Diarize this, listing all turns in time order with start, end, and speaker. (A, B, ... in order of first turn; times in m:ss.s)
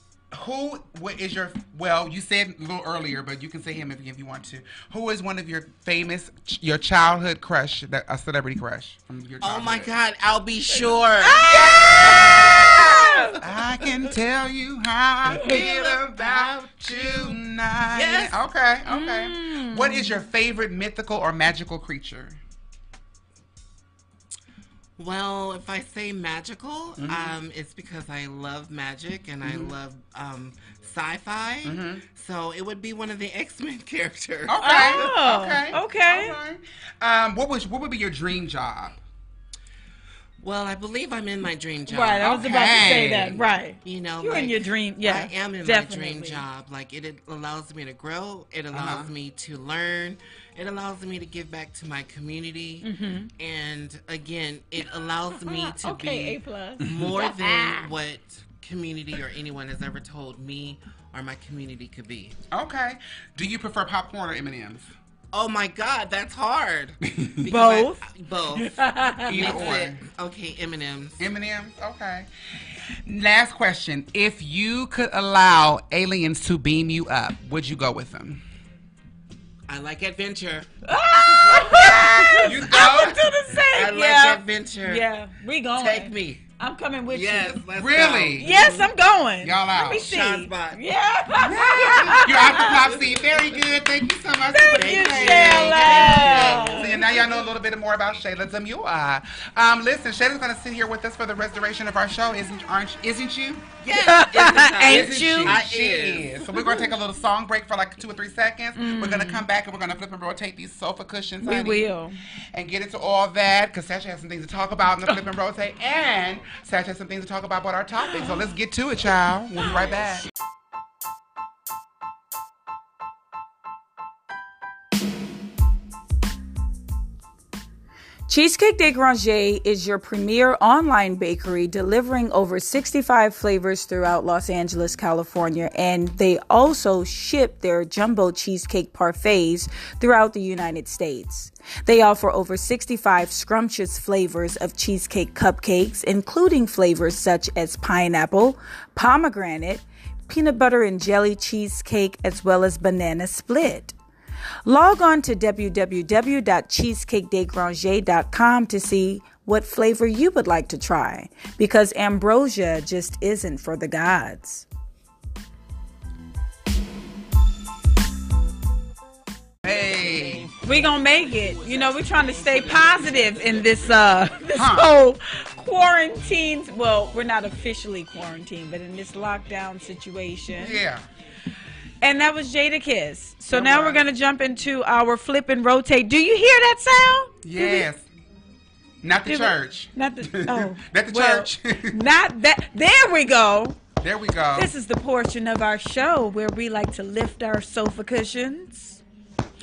0:00.3-0:09.9 A
0:09.4-0:14.1 B
0:11.2-0:13.4 C
0:11.4-0:22.4 A
0:15.3-0:17.4 B
0:15.3-0:15.6 C
0:17.9-0:18.4 B
0:18.9-0:20.2 C
0:25.0-0:35.1 B
0:27.0-0:27.3 A
0:29.4-0:29.7 A
0:31.6-0:32.0 A
0:34.5-0:39.0 A
0:34.6-0:36.4 C
0:40.4-0:42.4 B
0:41.9-0:46.4 C
0:42.2-0:43.4 A
0:43.8-1:02.4 B
0:48.7-0:49.1 A
0:52.8-0:53.3 C
0:55.4-0:57.9 C
0:56.8-0:57.2 A
1:02.5-1:04.9 A
1:05.3-1:11.2 B
1:07.1-1:07.4 A
1:07.5-1:08.0 C
1:08.6-1:09.6 C
1:09.3-1:10.0 A
1:11.2-1:12.3 A
1:13.0-1:18.4 A
1:19.7-1:23.0 B
1:20.9-1:27.6 C
1:21.8-1:23.2 A
1:23.7-1:25.0 B
1:25.8-1:26.4 B
1:27.1-1:28.9 B
1:27.8-1:28.6 A
1:28.4-1:32.8 C
1:29.4-1:30.1 A
1:29.8-1:30.8 B
1:31.4-1:33.6 B
1:31.4-1:43.7 A
1:34.5-1:37.0 C
1:34.8-1:37.5 B
1:43.8-1:46.4 B
1:43.9-1:45.6 C
1:44.8-1:51.9 A
1:46.5-1:46.9 C
1:48.8-1:49.5 C
1:51.4-1:52.2 C
1:52.5-2:00.2 A
2:08.3-2:34.0 C
2:34.6-2:44.7 C
2:49.6-2:50.5 A
2:49.7-2:54.1 B
2:50.6-3:00.8 C
2:54.6-2:54.9 A
3:00.6-3:01.0 A
3:02.0-3:07.9 C
3:03.5-3:04.0 A
3:07.4-3:08.0 A
3:09.0-3:12.0 A
3:09.3-3:13.8 C
3:14.0-3:14.7 A
3:14.6-3:19.0 C